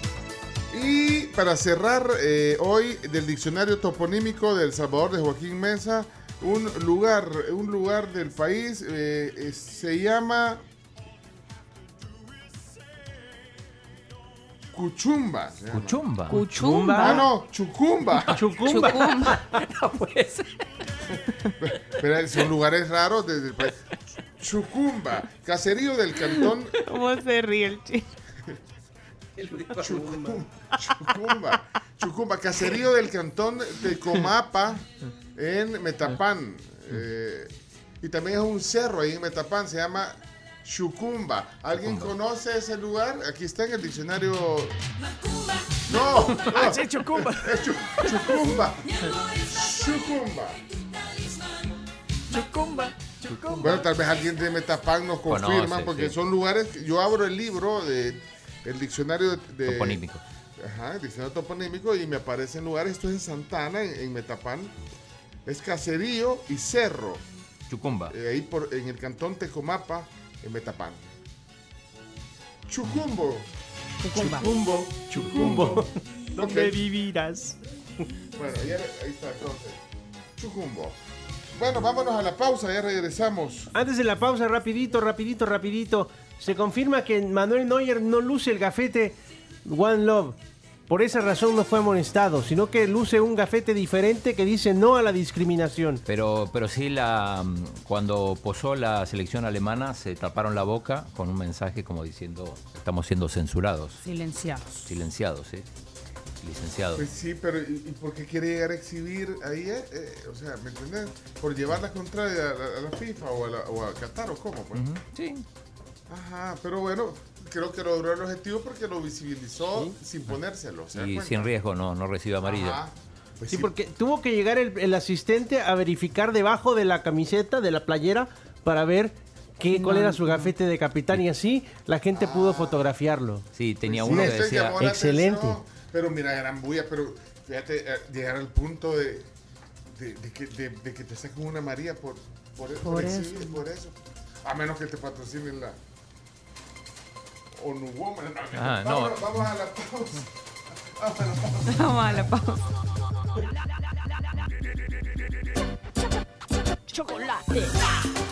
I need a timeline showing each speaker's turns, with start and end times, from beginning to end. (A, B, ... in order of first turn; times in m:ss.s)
0:00.7-0:10.6 A
0:14.7-0:16.3 A
0:15.7-0:16.4 B
0:16.3-0:17.3 C
0:16.3-0:17.1 D
0:17.0-0:18.7 A
0:18.2-0:19.5 C
0:18.6-0:19.4 D
0:19.5-0:20.6 B
0:21.6-0:23.8 A
0:24.4-0:26.8 A
0:26.2-0:28.1 D
0:29.8-0:44.8 A
0:41.7-0:42.1 B
0:45.8-0:50.6 A
0:46.5-0:48.4 E
0:52.3-0:53.6 E
0:53.6-1:00.0 A
0:55.3-0:56.2 B
0:59.6-1:00.2 B
1:00.6-1:04.7 A
1:05.4-1:07.2 A
1:07.7-1:08.1 B
1:08.1-1:11.0 A
1:12.7-1:13.5 A
1:14.0-1:14.5 F
1:14.1-1:16.8 A
1:15.0-1:17.6 C
1:18.3-1:19.8 A
1:20.4-1:21.0 A
1:21.5-1:23.7 A
1:23.7-1:30.4 C
1:30.9-1:36.0 C
1:36.0-1:44.0 B
1:44.0-1:44.9 F
1:44.8-1:45.6 B
1:46.4-1:47.0 B
1:46.9-1:54.8 A
1:54.7-1:55.4 B
1:56.1-2:01.5 A
1:59.6-1:59.9 C
2:00.9-2:02.8 B
2:02.4-2:03.7 A
2:03.5-2:13.4 C
2:09.7-2:10.5 F
2:12.1-2:12.9 A
2:13.5-2:14.9 B
2:13.8-2:19.3 A
2:14.0-2:15.6 C
2:19.9-2:25.8 A
2:22.8-2:23.6 D
2:27.6-2:30.2 A
2:28.5-2:29.3 B
2:31.0-2:32.3 A
2:31.7-2:32.6 D